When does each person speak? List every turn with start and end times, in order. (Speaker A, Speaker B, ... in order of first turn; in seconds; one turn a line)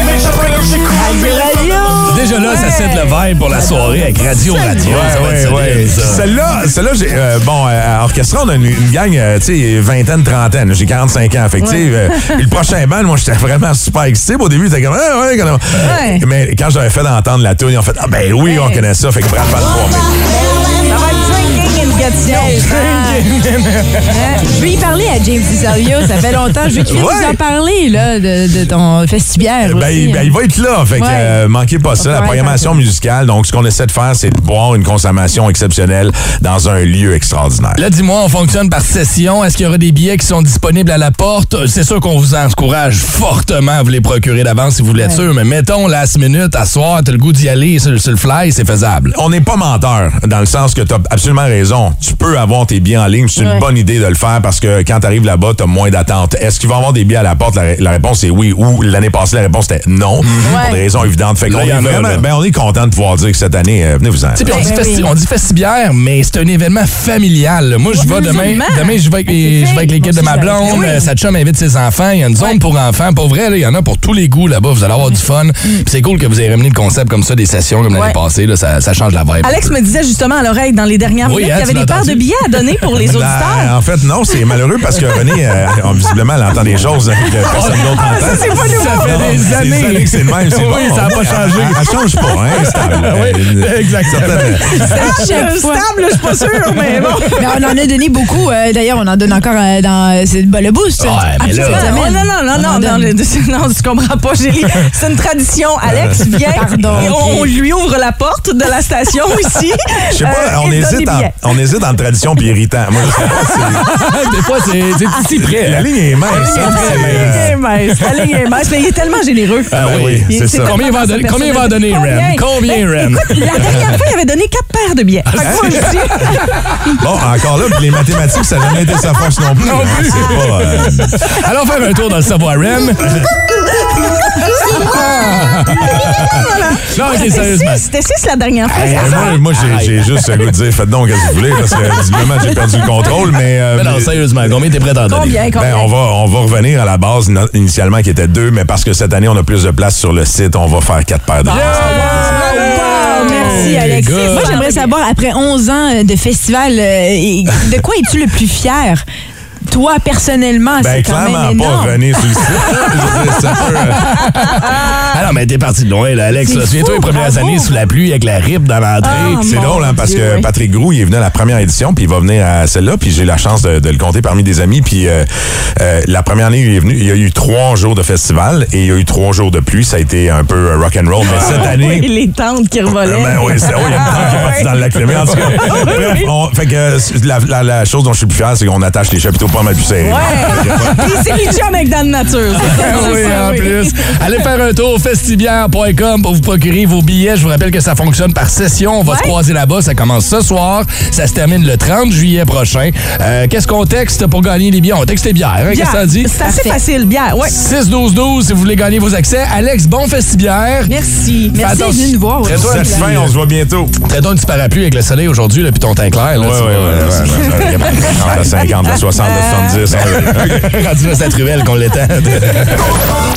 Speaker A: 1.0-3.0
Speaker B: 2.0-6.3
Speaker A: 3.6-5.0
Speaker C: 4.8-20.1
Speaker D: 11.6-12.4
Speaker D: 15.7-16.2
Speaker A: 18.5-18.8
Speaker A: 20.2-23.2
Speaker B: 22.3-24.4
Speaker A: 24.1-30.4
Speaker C: 26.8-27.4
Speaker C: 29.6-37.8
Speaker A: 30.9-31.4
Speaker A: 31.9-32.8
Speaker B: 37.8-49.1
Speaker C: 49.1-64.5
Speaker A: 53.3-53.6
Speaker B: 60.2-60.5
Speaker A: 60.4-60.9
Speaker B: 61.4-62.3
Speaker B: 64.3-79.7
Speaker A: 64.4-65.1
Speaker D: 67.9-69.0
Speaker A: 69.3-71.1
Speaker D: 70.6-71.0
Speaker D: 77.9-78.2
Speaker D: 79.4-83.7
Speaker B: 81.2-82.9
Speaker C: 83.0-94.8
Speaker B: 87.5-95.0
Speaker D: 87.5-89.4
Speaker D: 94.7-97.5
Speaker A: 94.7-95.9
Speaker A: 97.3-103.1
Speaker B: 101.0-102.1
Speaker D: 101.4-111.5
Speaker C: 105.9-106.2
Speaker A: 106.5-107.5
Speaker C: 110.1-113.9
Speaker B: 113.1-117.9
Speaker D: 113.1-113.9
Speaker C: 115.4-117.5
Speaker D: 116.3-127.0
Speaker A: 116.4-116.7
Speaker C: 119.7-120.8
Speaker B: 119.7-124.0
Speaker B: 125.3-126.8
Speaker C: 125.4-126.3
Speaker C: 127.0-131.3
Speaker B: 129.6-133.3
Speaker B: 133.9-137.9
Speaker D: 134.5-135.0
Speaker D: 135.7-139.4
Speaker B: 138.7-140.5
Speaker C: 138.9-144.6
Speaker B: 143.7-145.4
Speaker D: 145.1-145.9
Speaker C: 145.5-152.0
Speaker B: 151.4-154.6
Speaker D: 151.5-154.9
Speaker A: 151.5-159.0
Speaker A: 159.7-163.7
Speaker C: 160.8-164.2
Speaker B: 163.9-169.6
Speaker A: 166.5-167.7
Speaker D: 169.0-170.5
Speaker C: 169.3-175.3
Speaker C: 175.8-182.1
Speaker D: 181.2-184.7
Speaker B: 181.2-181.8
Speaker C: 183.0-191.4
Speaker B: 183.9-186.1
Speaker D: 185.3-186.3
Speaker D: 190.0-193.9
Speaker B: 190.5-191.1
Speaker B: 192.6-206.3
Speaker D: 199.0-199.3
Speaker D: 205.7-207.5
Speaker A: 206.4-206.8
Speaker B: 207.4-210.9
Speaker D: 210.9-211.9
Speaker A: 211.6-213.3
Speaker B: 211.6-213.3
Speaker C: 212.4-213.9
Speaker B: 214.0-218.6
Speaker C: 216.3-220.8
Speaker D: 219.1-219.8
Speaker B: 219.9-223.0